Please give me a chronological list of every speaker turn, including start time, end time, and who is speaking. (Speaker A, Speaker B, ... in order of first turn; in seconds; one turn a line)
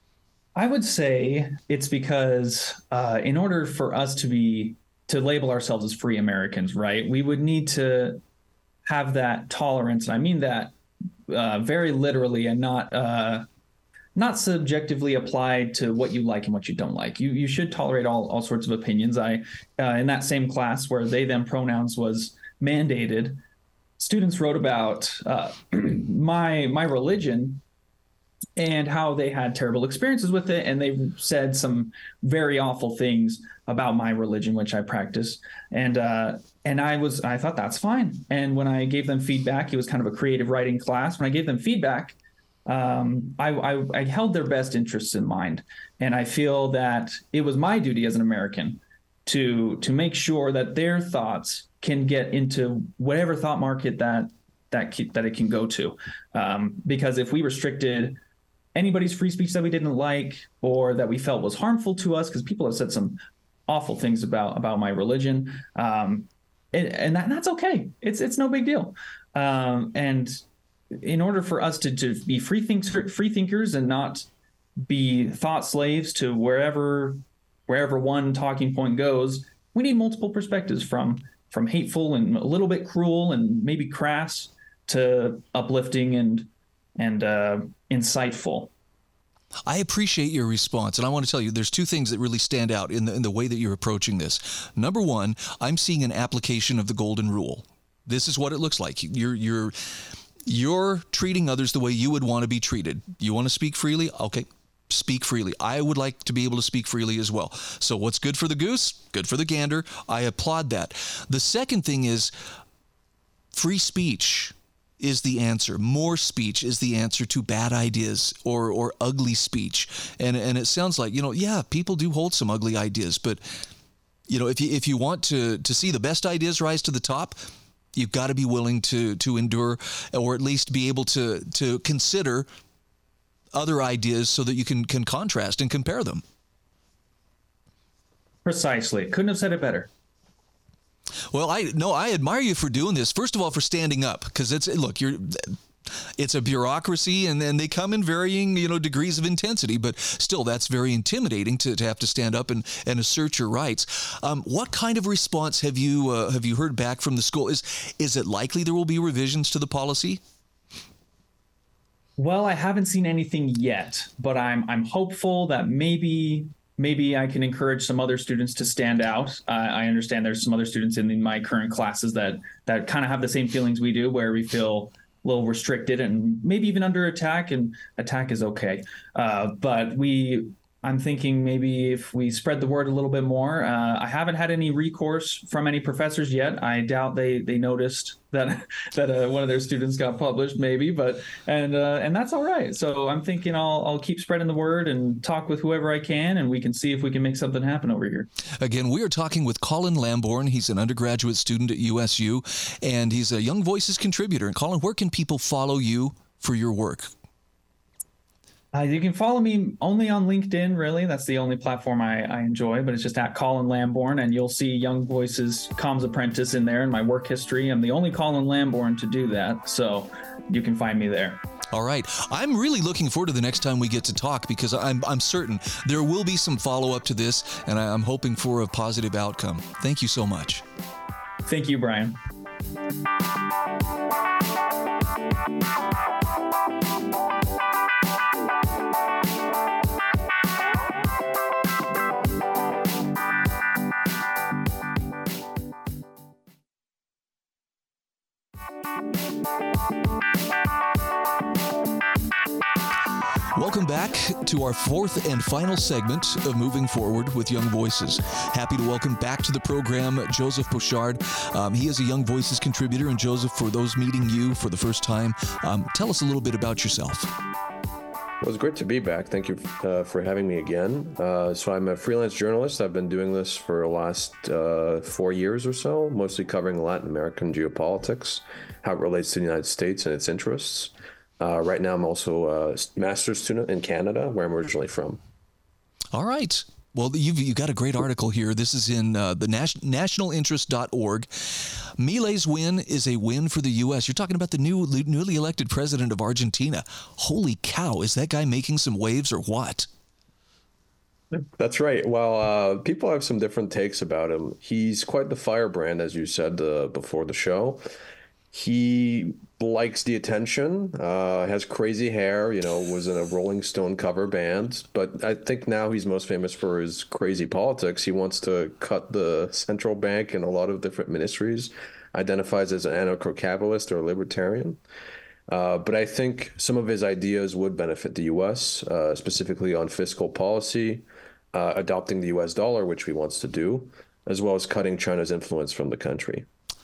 Speaker A: 0.5-8.2
Speaker A: 8.8-10.7
Speaker A: 11.3-13.4
Speaker A: 14.1-23.4
Speaker A: 24.0-27.6
Speaker A: 28.6-58.2
Speaker A: 58.7-70.4
Speaker A: 71.0-74.2
Speaker A: 74.8-88.7
Speaker B: 89.7-112.3
Speaker B: 113.5-123.5
Speaker B: 124.3-127.4
Speaker B: 127.9-132.5
Speaker B: 133.5-136.2
Speaker A: 138.4-139.9
Speaker B: 141.3-160.2
Speaker A: 162.2-198.3
Speaker B: 198.6-207.1
Speaker A: 208.7-221.4
Speaker B: 221.7-230.6
Speaker A: 231.4-232.2
Speaker B: 253.5-267.3
Speaker C: 268.4-285.2
Speaker B: 286.1-299.9
Speaker C: 301.6-307.8
Speaker C: 308.5-324.8
Speaker C: 325.5-336.4